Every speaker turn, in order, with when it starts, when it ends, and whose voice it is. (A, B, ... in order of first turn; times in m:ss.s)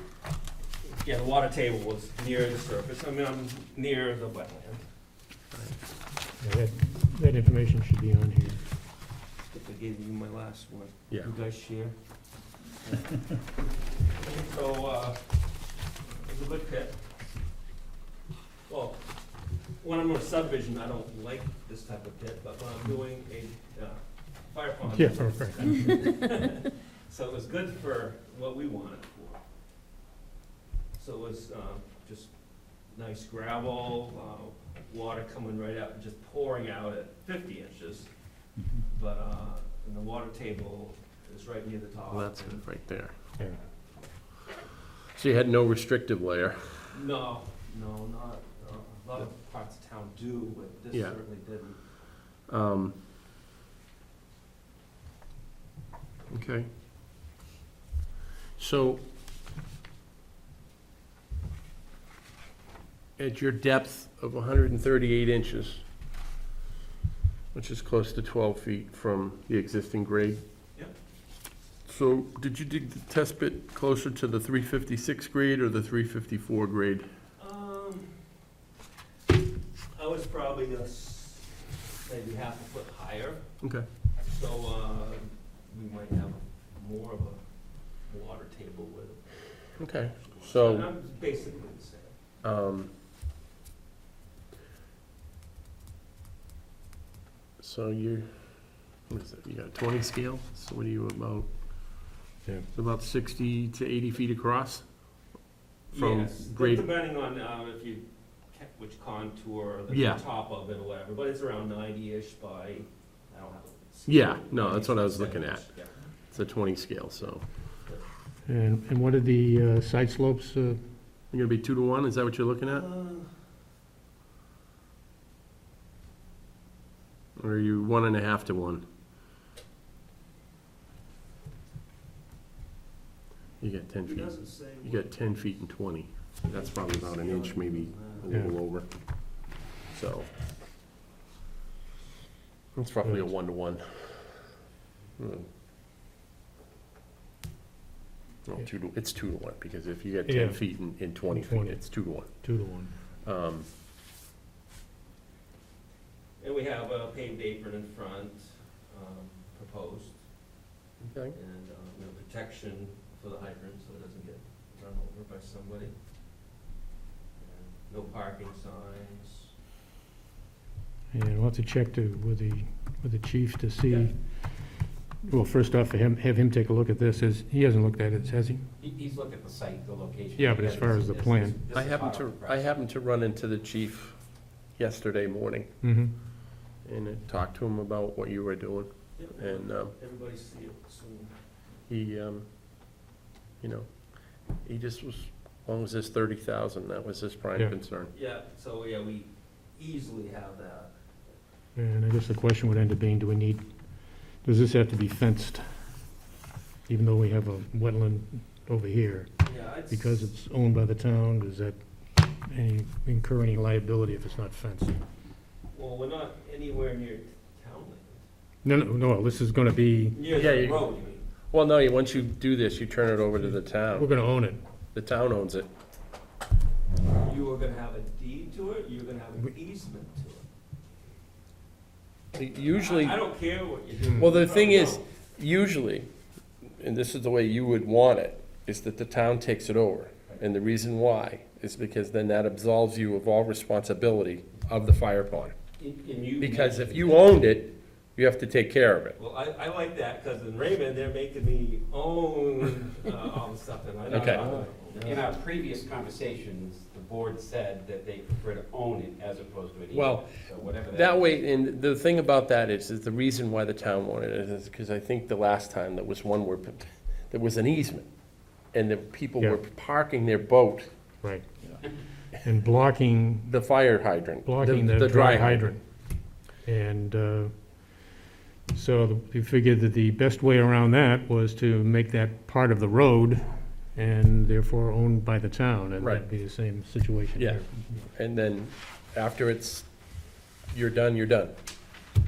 0:00.8-0:04.8 A
0:06.4-0:08.6 B
0:09.4-0:11.9 A
0:12.8-0:13.2 A
0:14.1-0:15.4 A
0:16.1-0:17.0 A
0:18.7-0:19.0 A
0:19.8-0:29.4 A
0:24.9-0:25.8 B
0:30.9-0:32.3 A
0:32.9-0:38.1 A
0:38.7-0:42.6 A
0:42.1-0:43.1 C
0:45.1-0:46.8 C
0:46.9-0:51.8 A
0:50.9-0:51.2 C
0:52.5-0:53.0 C
0:56.3-0:56.7 C
0:58.6-0:59.0 C
1:03.2-1:05.8 C
1:07.5-1:10.4 C
1:11.8-1:17.1 C
1:17.4-1:18.1 A
1:19.9-1:23.4 A
1:23.6-1:23.9 C
1:24.2-1:27.4 A
1:28.0-1:32.1 A
1:29.8-1:30.9 C
1:32.4-1:32.9 C
1:37.6-1:41.5 C
1:42.7-1:44.8 C
1:45.9-1:56.1 A
1:45.9-1:46.9 C
1:49.9-1:50.2 C
1:54.0-1:55.7 C
1:56.3-1:57.4 C
1:58.4-2:00.8 B
2:01.3-2:02.9 C
2:02.6-2:03.4 A
2:07.4-2:08.8 C
2:13.6-2:20.3 C
2:14.0-2:15.1 A
2:16.4-2:18.5 A
2:22.7-2:24.4 C
2:23.0-2:23.3 B
2:25.2-2:25.5 C
2:28.4-2:32.5 C
2:30.2-2:33.0 B
2:33.2-2:33.7 C
2:36.4-2:40.2 A
2:41.0-2:41.3 C
2:41.3-2:45.9 A
2:47.4-2:49.5 A
2:51.1-2:54.5 B
2:53.8-2:54.1 A
2:55.2-2:58.6 B
2:58.8-3:02.6 D
3:00.4-3:01.6 B
3:01.7-3:04.2 C
3:04.7-3:05.7 C
3:05.8-3:06.2 B
3:06.8-3:09.9 C
3:09.2-3:11.3 A
3:11.9-3:12.5 C
3:13.6-3:18.1 C
3:18.1-3:20.9 A
3:21.8-3:25.6 B
3:26.9-3:29.3 B
3:29.4-3:30.2 A
3:29.9-3:35.0 B
3:35.7-3:38.2 A
3:38.6-3:40.3 B
3:40.1-3:41.3 A
3:40.3-3:40.8 C
3:41.5-3:44.1 C
3:43.9-3:44.6 B
3:44.9-3:45.7 C
3:47.1-3:50.5 A
3:52.3-3:53.2 C
3:52.5-3:55.1 A
3:54.2-3:56.1 C
3:56.6-4:05.6 C
4:05.8-4:07.4 D
4:06.4-4:09.2 C
4:09.2-4:15.3 A
4:14.1-4:15.1 C
4:15.0-4:21.4 D
4:19.9-4:28.1 C
4:28.7-4:30.9 C
4:31.2-4:33.5 B
4:33.5-4:35.8 C
4:34.4-4:35.8 B
4:36.6-4:38.1 B
4:38.7-4:48.0 B
4:46.0-4:46.2 C
4:47.4-4:49.9 C
4:50.7-4:51.5 C